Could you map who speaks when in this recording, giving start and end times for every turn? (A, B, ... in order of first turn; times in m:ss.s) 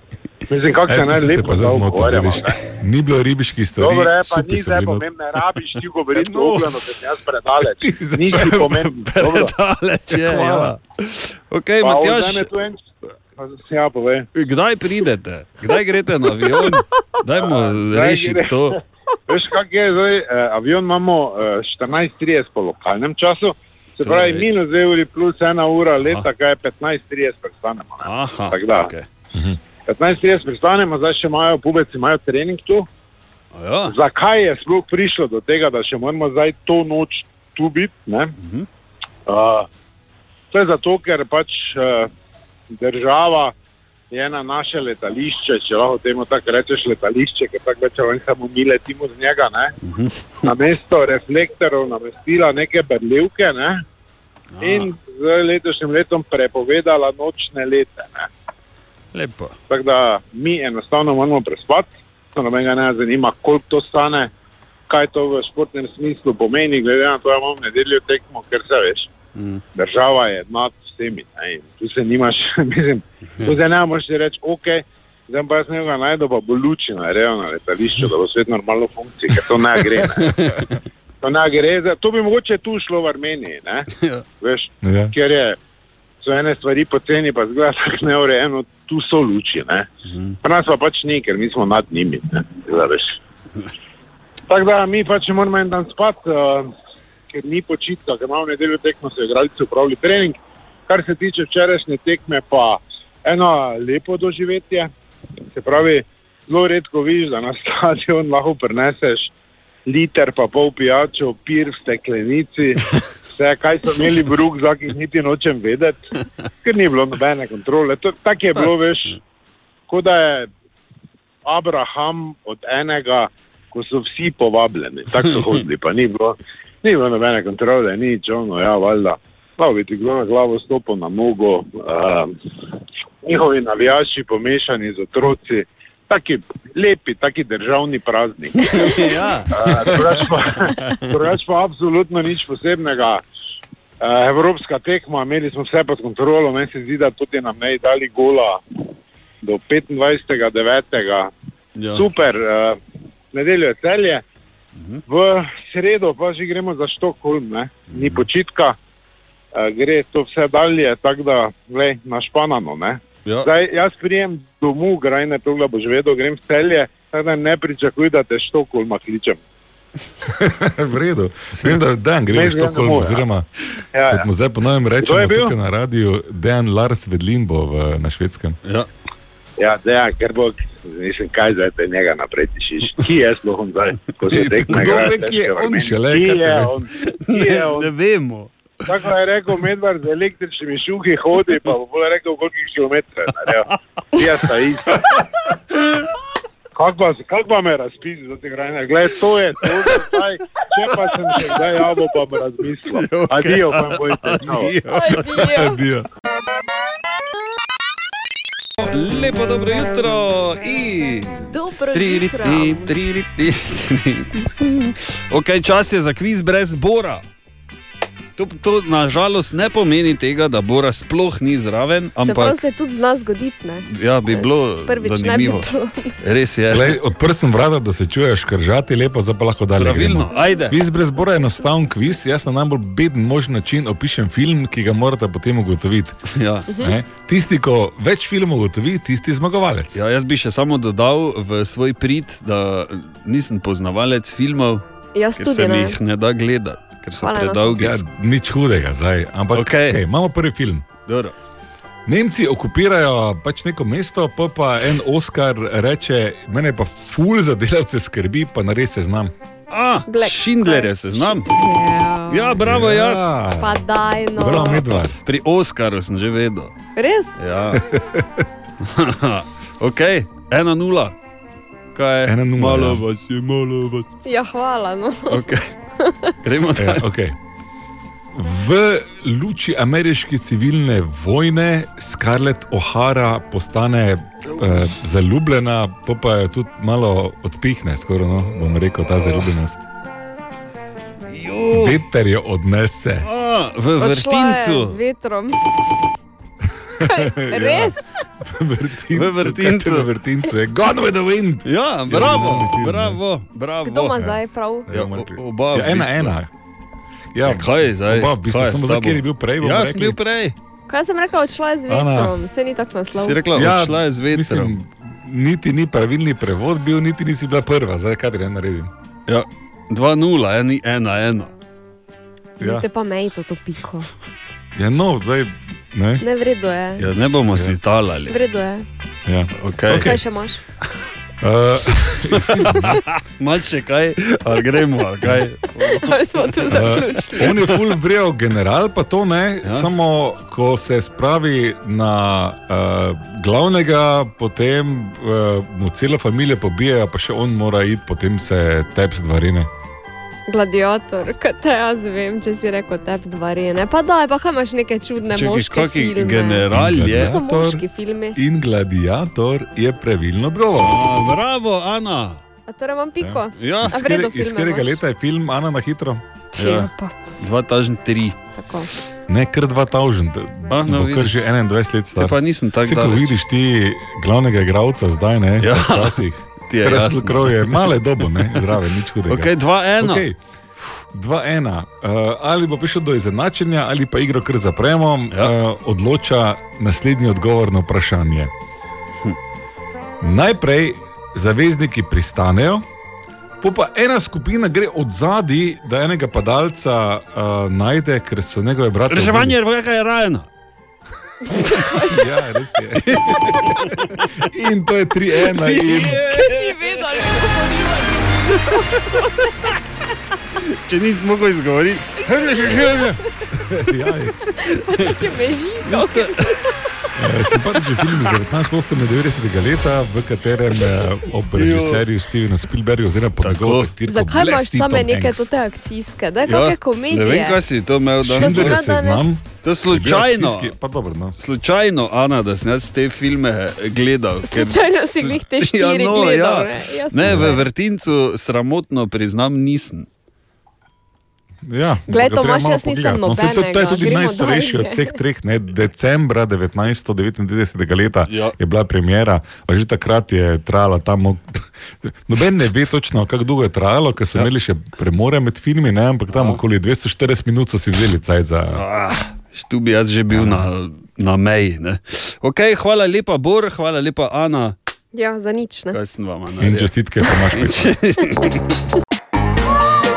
0:00.5-0:02.5 A
0:00.9-0:05.0 B
0:03.8-0:09.5 A
0:06.2-0:06.6 C
0:07.8-0:08.9 B
0:08.3-0:12.5 C
0:10.1-0:10.7 B
0:11.8-0:12.8 A
0:13.4-0:14.3 A
0:14.3-0:18.8 C
0:17.4-0:18.8 A
0:19.3-0:28.9 A
0:24.0-0:24.5 C
0:28.0-0:29.0 C
0:29.9-0:32.9 A
0:33.5-0:33.9 C
0:33.9-0:38.3 A
0:38.4-0:38.7 C
0:39.3-0:39.7 A
0:40.5-0:42.1 A
0:42.7-0:43.5 A
0:44.1-0:49.7 A
0:49.8-0:50.2 C
0:50.4-0:53.8 A
0:54.5-0:54.9 C
0:54.6-0:58.3 A
0:59.1-0:59.6 C
0:59.7-1:04.3 A
1:04.9-1:09.1 A
1:09.4-1:09.6 C
1:09.7-1:20.3 A
1:19.9-1:20.8 C
1:21.2-1:23.9 A
1:23.9-1:24.2 C
1:24.4-1:25.6 A
1:24.8-1:25.1 B
1:26.2-1:29.9 A
1:30.1-1:30.4 C
1:30.4-1:33.2 A
1:34.5-1:36.7 A
1:37.3-1:44.9 A
1:45.5-1:49.3 A
1:49.9-1:52.8 A
1:53.3-1:56.0 A
1:56.6-1:59.2 A
1:58.6-1:59.2 C
1:59.9-2:00.5 A
2:01.4-2:12.3 A
2:13.2-2:23.2 A
2:18.6-2:19.9 C
2:24.0-2:28.6 A
2:29.4-2:31.3 A
2:31.8-2:32.1 C
2:31.9-2:32.8 A
2:33.3-2:34.2 A
2:35.1-2:38.8 A
2:37.9-2:38.3 C
2:39.5-2:49.4 A
2:50.3-2:53.4 B
2:52.3-2:53.2 A
2:53.9-2:54.3 A
2:54.1-2:58.6 B
2:55.0-2:55.5 A
2:59.6-3:07.9 A
3:04.3-3:05.1 C
3:04.6-3:06.7 B
3:07.3-3:08.5 C
3:08.9-3:15.0 A
3:14.9-3:15.2 C
3:16.8-3:24.8 A
3:21.1-3:21.6 C
3:22.8-3:25.4 C
3:24.9-3:25.8 D
3:25.3-3:26.0 B
3:28.8-3:37.2 C
3:31.5-3:32.9 D
3:38.4-3:42.6 C
3:42.2-3:46.1 D
3:43.9-3:45.7 C
3:46.2-3:47.0 C
3:46.7-3:56.2 B
3:49.8-3:50.8 C
3:56.3-3:56.7 C
3:56.8-4:00.0 B
3:59.9-4:04.8 C
4:05.1-4:06.0 D
4:05.4-4:08.0 C
4:07.2-4:07.8 D
4:07.8-4:10.8 B
4:09.5-4:10.0 C
4:11.0-4:11.3 C
4:12.0-4:19.3 B
4:19.7-4:21.5 C
4:20.1-4:22.6 D
4:22.3-4:23.4 C
4:22.6-4:23.8 B
4:23.6-4:24.8 D
4:24.4-4:25.1 B
4:24.4-4:26.7 C
4:27.0-4:27.3 D
4:27.4-4:27.8 C
4:27.8-4:28.4 B
4:28.8-4:31.2 C
4:31.9-4:34.0 C
4:32.2-4:33.0 B
4:34.2-4:35.4 D
4:35.3-4:35.6 C
4:36.0-4:36.3 D
4:36.4-4:37.1 C
4:36.8-4:37.3 B
4:38.3-4:49.8 B
4:49.1-4:49.5 C
4:51.3-4:52.0 C
4:51.7-4:53.2 B
4:53.2-4:55.0 C
4:54.0-4:55.6 D
4:57.0-5:03.2 B
4:57.0-4:58.0 D
4:59.1-5:00.1 C
5:01.6-5:04.2 C
5:03.8-5:04.9 D
5:04.2-5:06.5 B
5:04.9-5:06.4 C
5:07.3-5:10.2 B
5:07.4-5:10.5 C
5:10.9-5:13.4 D
5:11.9-5:12.3 B
5:13.1-5:14.8 C
5:13.5-5:18.9 B
5:19.3-5:21.5 C
5:22.6-5:24.1 D
5:22.6-5:22.8 B
5:24.8-5:26.2 B
5:26.2-5:27.1 D
5:27.0-5:28.4 C
5:28.3-5:28.8 D
5:29.2-5:30.2 B
5:29.6-5:30.1 C
5:29.9-5:30.6 D
5:31.4-5:33.0 B
5:32.4-5:37.8 C
5:35.8-5:37.5 D
5:36.7-5:49.7 B
5:50.5-5:58.4 D
5:55.3-5:57.3 C
5:56.7-5:57.8 B
5:58.3-6:01.0 B
6:00.8-6:02.4 C
6:02.7-6:05.0 D
6:03.2-6:06.2 B
6:03.6-6:04.0 C
6:06.5-6:07.1 D
6:06.6-6:08.4 C
6:08.5-6:08.9 D
6:09.3-6:20.4 B
6:10.7-6:11.4 C
6:12.1-6:13.3 C
6:15.6-6:16.2 C
6:16.7-6:18.6 C
6:19.3-6:20.2 C
6:21.1-6:28.5 B
6:30.2-6:32.8 B
6:33.6-6:39.6 B
6:39.1-6:40.5 C
6:41.4-6:42.2 D
6:41.9-6:43.7 B
6:43.3-6:44.2 C
6:44.4-6:46.2 B
6:45.4-6:47.4 C
6:45.9-6:49.3 D
6:48.5-6:49.3 C
6:50.7-6:53.0 C
6:52.2-6:53.1 D
6:53.5-6:54.4 B
6:54.6-6:56.7 D
6:55.8-6:57.1 C
6:57.2-7:05.5 B
6:57.8-6:58.1 C
7:01.5-7:02.0 C
7:03.4-7:03.9 C
7:04.1-7:07.6 D
7:06.4-7:08.8 C
7:08.2-7:11.4 B
7:08.3-7:09.4 D
7:09.6-7:10.7 C
7:11.4-7:20.1 C
7:14.4-7:17.6 D
7:17.3-7:17.5 B
7:21.6-7:38.8 B
7:22.1-7:25.1 D
7:28.3-7:28.5 C
7:36.3-7:36.6 C
7:38.7-7:44.7 C
7:40.3-7:40.6 B
7:45.1-7:46.0 D
7:45.9-7:48.6 C
7:46.6-7:47.9 B